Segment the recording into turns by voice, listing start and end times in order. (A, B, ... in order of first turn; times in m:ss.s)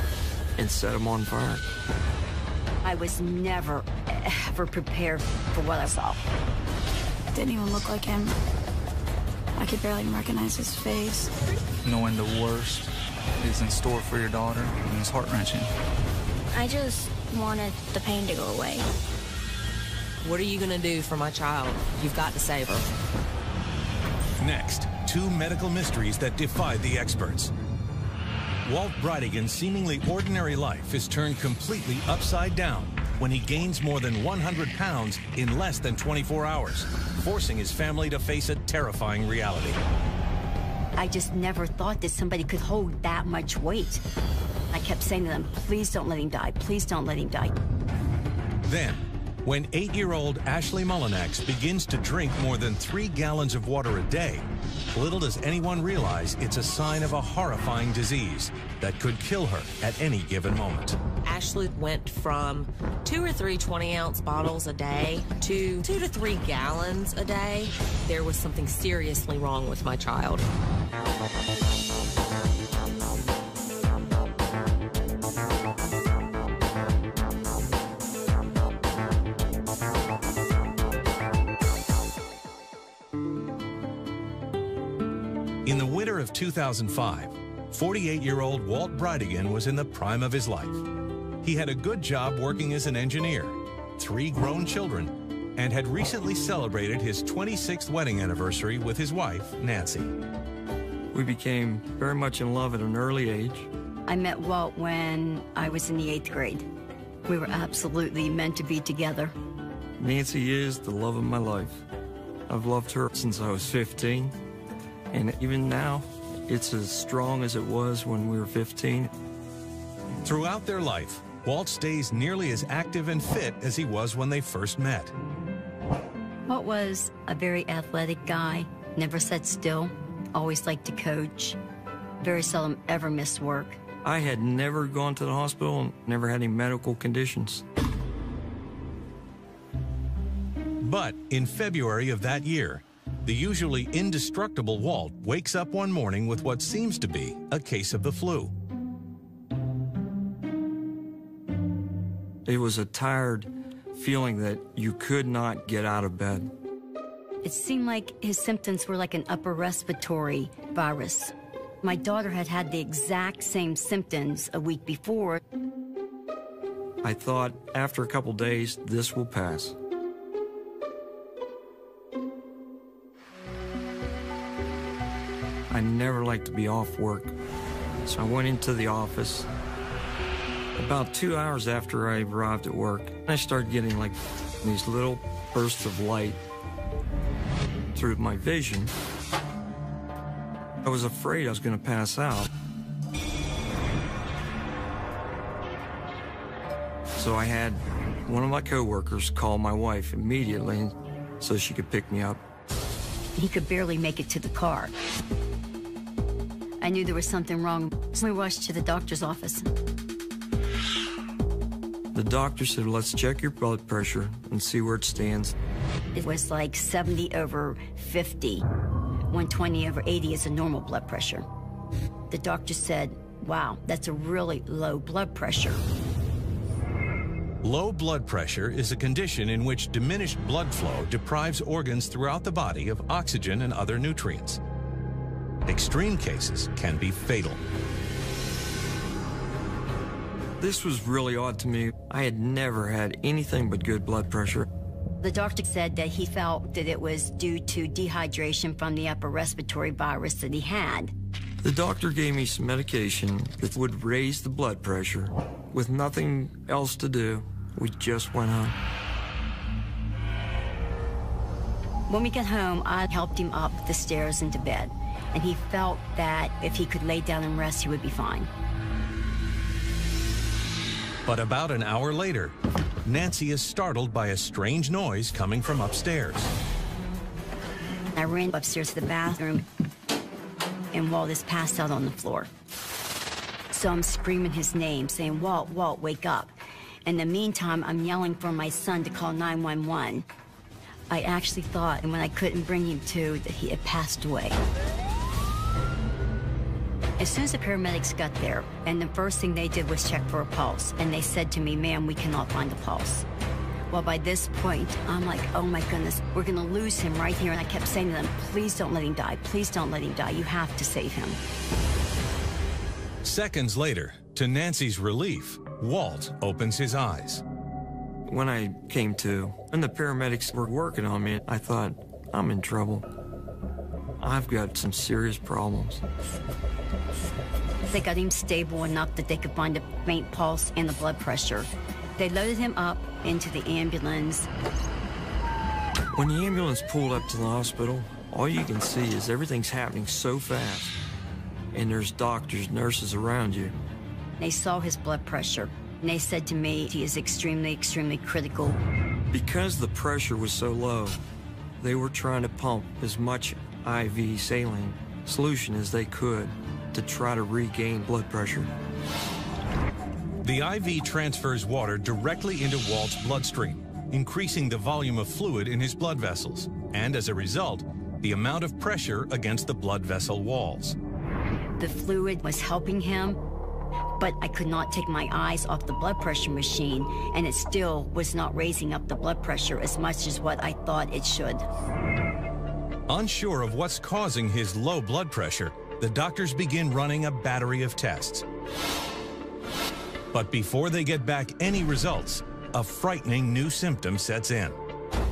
0:00.6-0:01.7 A
0:02.8-0:06.2 B
0:07.3-0:08.4 C
0:09.6-0:11.3 C
0:11.8-0:15.7 D
0:16.5-0:18.9 E
0:20.2-0:23.0 F
0:24.4-0:27.5 G
0:28.6-0:39.8 G
0:41.0-0:44.0 B
0:44.7-0:47.6 B
0:48.6-1:01.0 G
1:01.2-1:10.5 F
1:25.6-1:30.9 G
1:31.4-1:40.1 G
1:41.1-1:43.7 A
1:44.1-1:46.7 B
1:47.3-1:49.3 B
1:50.0-1:51.8 A
1:52.5-1:54.4 A
1:55.1-1:59.1 A
2:00.2-2:05.1 G
2:06.5-2:11.6 B
2:12.2-2:13.8 B
2:14.0-2:17.6 A
2:20.8-2:28.5 G
2:32.5-2:36.5 A
2:37.4-2:45.4 B
2:47.0-2:49.8 A
2:55.7-2:57.3 A
2:58.1-2:59.5 A
3:00.8-3:06.4 A
3:07.9-3:08.9 A
3:10.8-3:12.5 A
3:17.2-3:22.4 A
3:23.3-3:24.9 B
3:26.8-3:29.7 B
3:32.1-3:35.6 A
3:36.2-3:38.7 B
3:39.3-3:41.5 B
3:42.3-3:45.8 B
3:47.6-3:54.6 G
3:55.7-3:57.6 G
4:00.6-4:04.7 A
4:05.2-4:11.1 B
4:11.6-4:18.8 A
4:22.1-4:28.5 B
4:31.2-4:36.5 G
4:38.1-4:39.6 B
4:40.9-4:42.5 B
4:43.7-4:50.2 B
4:51.1-4:54.6 B
4:57.2-5:03.3 B
5:03.9-5:11.4 B
5:13.2-5:17.4 G
5:18.3-5:23.1 A
5:24.2-5:26.0 A
5:27.9-5:34.5 B
5:36.1-5:41.0 A
5:41.7-5:43.8 A
5:44.4-5:48.8 B
5:49.3-5:51.2 A
5:51.8-5:58.7 A
6:00.4-6:11.0 G
6:11.8-6:13.4 B
6:14.2-6:21.6 B
6:23.1-6:28.4 G
6:30.3-6:34.8 G